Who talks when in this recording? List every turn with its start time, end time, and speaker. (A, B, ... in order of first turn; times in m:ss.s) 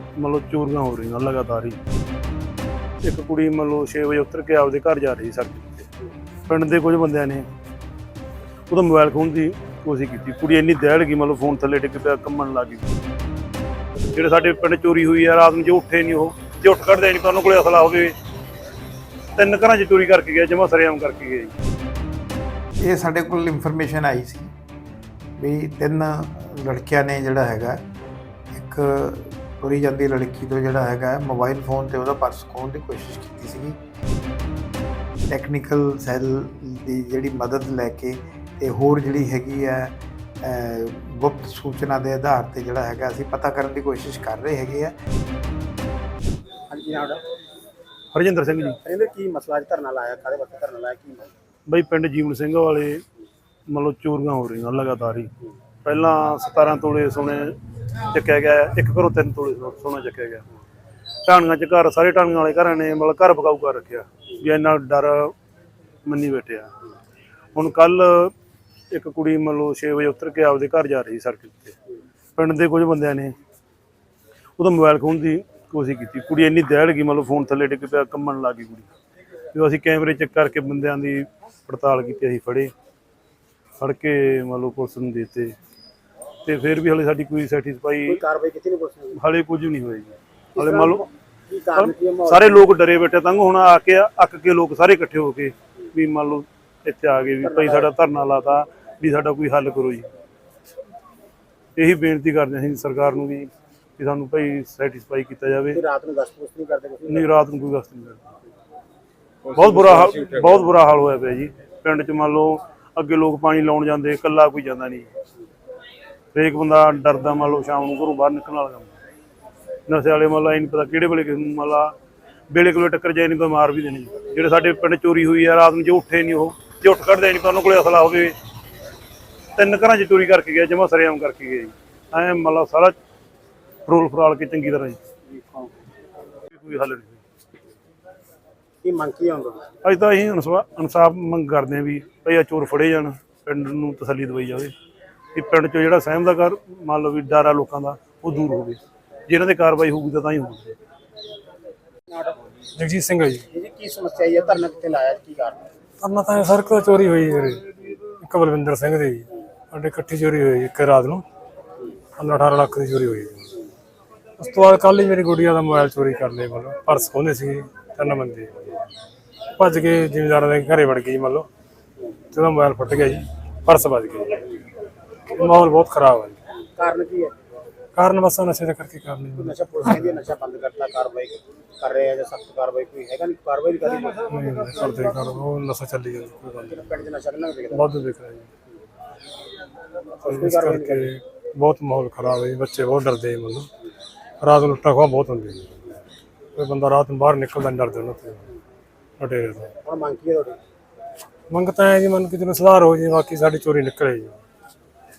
0:00.2-0:01.8 A
0:03.0-0:05.9 A
0:06.5-0:07.5 A
0:08.7-0:12.9 A
0:14.1-0:18.1 A
0:19.4-0:21.5 A
0:22.8-0:24.5 B
0:25.4-0:27.8 B
0:28.5-0:33.8 B
0:35.3-0:44.9 B
0:46.7-0:47.2 C
0:48.1-0:48.8 A
0:48.8-0:51.3 C
0:51.7-0:53.0 A
0:53.7-0:55.3 A
0:55.8-0:57.6 A
0:58.1-1:00.4 A
1:01.3-1:05.3 A
1:06.1-1:06.7 A
1:07.6-1:08.3 A
1:08.9-1:11.8 A
1:12.4-1:13.3 A
1:14.6-1:18.9 A
1:19.5-1:22.7 A
1:23.8-1:25.6 A
1:26.4-1:28.2 A
1:28.1-1:29.2 C
1:29.2-1:31.0 A
1:30.6-1:32.7 C
1:31.8-1:40.1 A
1:37.4-1:37.9 C
1:41.8-1:45.8 A
1:45.7-1:47.3 C
1:47.0-1:48.3 A
1:49.5-1:55.1 A
1:56.3-1:58.9 A
1:59.9-2:01.9 A
2:02.5-2:08.4 A
2:09.6-2:12.9 A
2:13.9-2:15.0 A
2:15.3-2:15.7 C
2:16.5-2:17.2 A
2:18.8-2:19.7 C
2:19.8-2:24.7 A
2:25.4-2:30.8 A
2:32.1-2:32.4 C
2:32.8-2:33.4 D
2:33.5-2:35.7 C
2:36.0-2:41.2 D
2:42.2-2:43.5 D
2:44.4-2:48.7 D
2:49.5-2:51.5 D
2:52.3-2:54.5 D
2:55.3-2:56.4 D
2:56.8-2:57.3 C
2:58.0-3:00.3 D
2:59.4-3:04.3 C
3:04.3-3:06.9 D
3:06.7-3:07.9 C
3:07.7-3:08.5 D
3:10.2-3:11.1 C
3:10.2-3:13.7 D
3:14.4-3:15.8 D
3:16.6-3:18.5 D
3:19.2-3:19.7 D
3:19.8-3:20.6 C
3:21.5-3:24.4 D